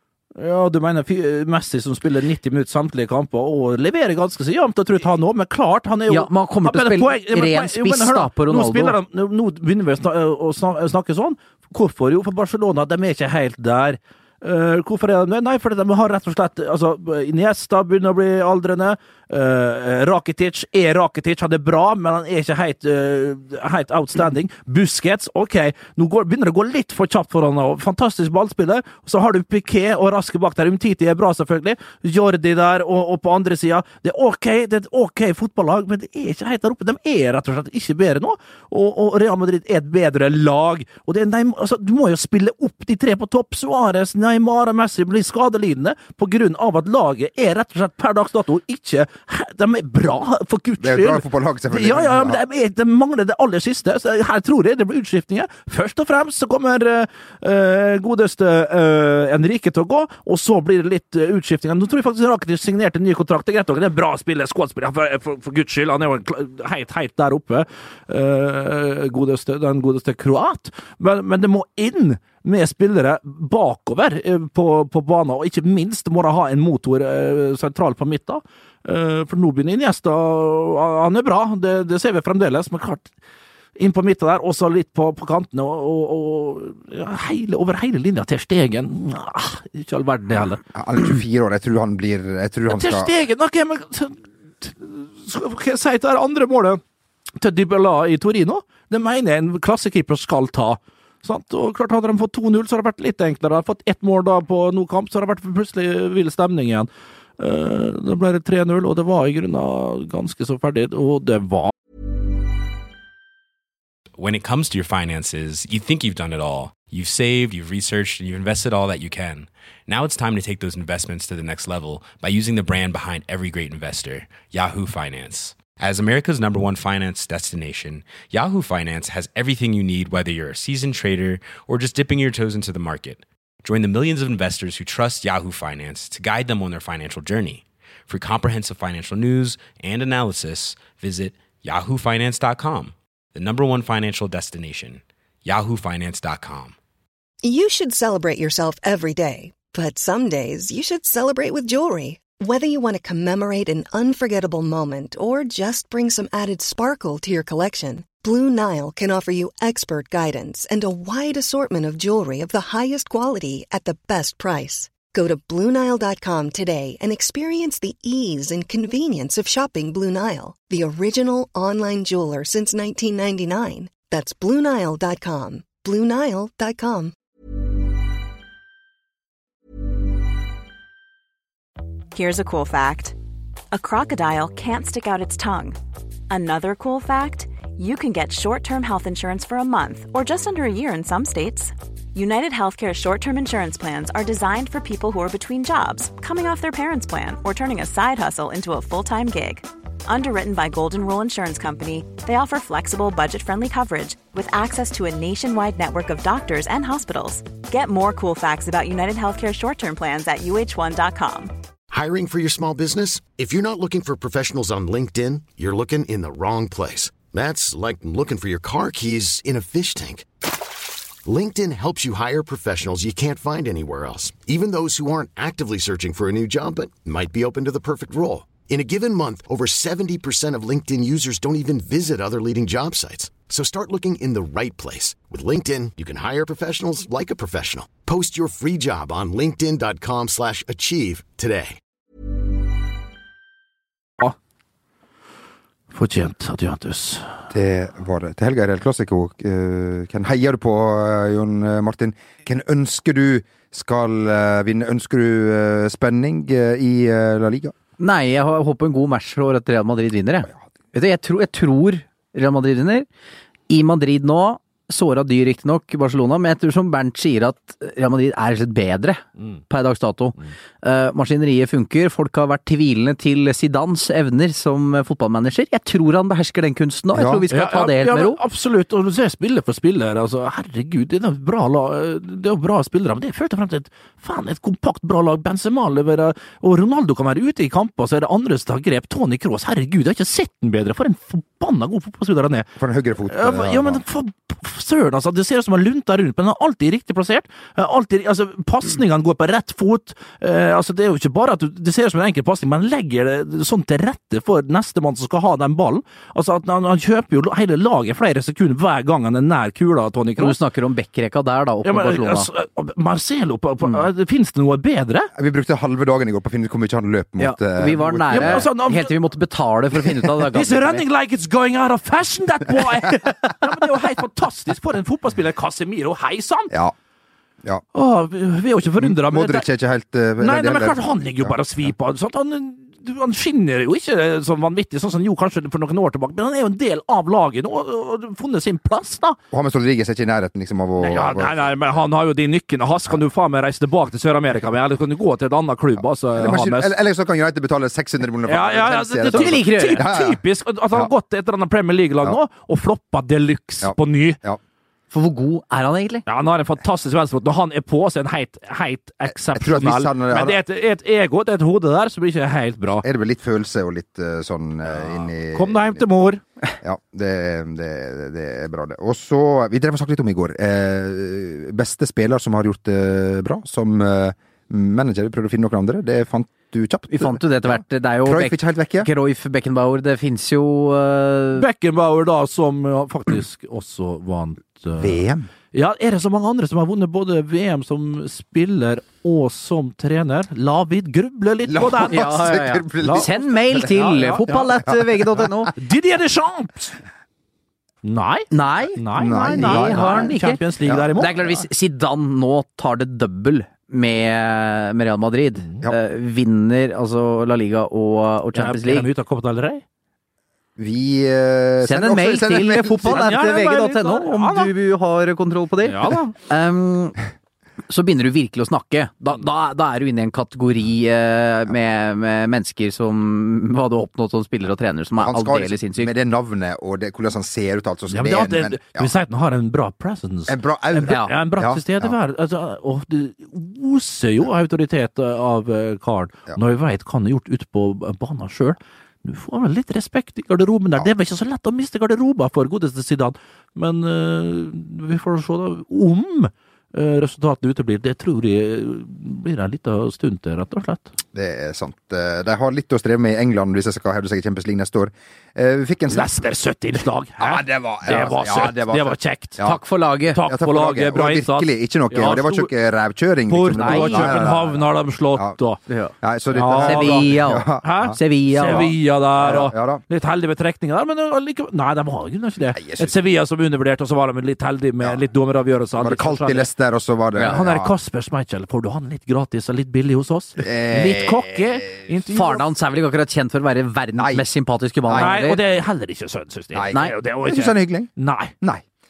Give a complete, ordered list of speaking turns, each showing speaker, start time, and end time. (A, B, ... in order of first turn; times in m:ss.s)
0:00.4-1:23.1 A
0:06.1-0:09.0 B
0:50.8-0:52.4 C
1:23.8-1:30.6 A
1:30.7-1:33.1 C
1:32.7-1:36.8 A
1:37.4-1:46.9 A
1:47.4-1:51.7 A
1:54.2-2:26.8 D
2:27.4-2:57.1 E
3:02.1-3:03.2 F
3:03.7-3:05.8 F
3:06.3-3:31.5 F
3:31.9-3:40.2 G
3:41.2-4:01.8 G
4:05.9-4:07.3 A
4:07.5-4:17.7 C
4:18.0-4:23.1 B
4:23.7-4:38.4 B
4:37.1-4:37.4 C
4:37.5-4:52.7 A
4:52.8-4:54.0 C
4:53.3-5:10.6 A
5:10.4-5:12.5 B
5:11.8-5:15.3 A
5:15.3-5:18.7 C
5:17.4-5:21.0 B
5:18.3-5:19.1 A
5:20.5-5:26.7 A
5:27.9-5:29.7 A
5:29.0-5:31.5 C
5:30.4-5:39.4 A
5:39.5-5:42.0 C
5:41.0-5:46.9 A
5:46.4-5:50.4 C
5:48.4-5:54.4 A
5:49.3-5:50.1 B
5:53.8-5:54.6 C
5:55.1-5:56.2 B
5:56.2-6:03.0 A
5:59.3-6:00.6 C
6:03.0-6:06.0 C
6:05.3-6:06.4 A
6:06.8-6:19.1 C
6:17.1-6:21.6 B
6:21.5-6:25.2 A
6:25.0-6:25.5 C
6:25.7-6:33.3 A
6:31.6-6:35.7 C
6:32.0-6:35.7 B
6:33.8-6:34.6 A
6:35.8-6:37.0 A
6:38.0-6:41.4 A
6:38.5-6:40.6 B
6:39.1-6:41.6 C
6:41.1-6:49.1 B
6:48.5-6:49.8 A
6:50.8-6:53.4 C
6:51.8-6:57.2 B
6:53.0-6:54.7 A
6:55.8-6:56.3 A
6:57.9-7:06.1 B
7:05.2-7:09.1 C
7:08.1-7:31.1 A
7:10.5-7:12.1 C
7:11.0-7:11.4 B
7:31.3-7:36.3 C
7:36.1-7:39.6 A
7:37.4-7:39.8 C
7:39.6-7:40.4 B
7:40.3-7:42.7 A
7:40.4-7:45.6 C
7:43.5-7:45.8 A
7:43.8-7:44.5 B
7:45.9-7:46.1 B
7:46.2-7:50.0 C
7:46.5-7:56.7 A
7:46.7-7:48.9 B
7:52.7-7:53.1 C
7:56.0-7:57.9 C
7:57.4-8:02.7 A
8:00.6-8:01.9 C
8:02.3-8:05.6 B
8:04.2-8:04.4 C
8:05.0-8:05.4 C
8:05.1-8:08.5 A
8:06.7-8:08.8 C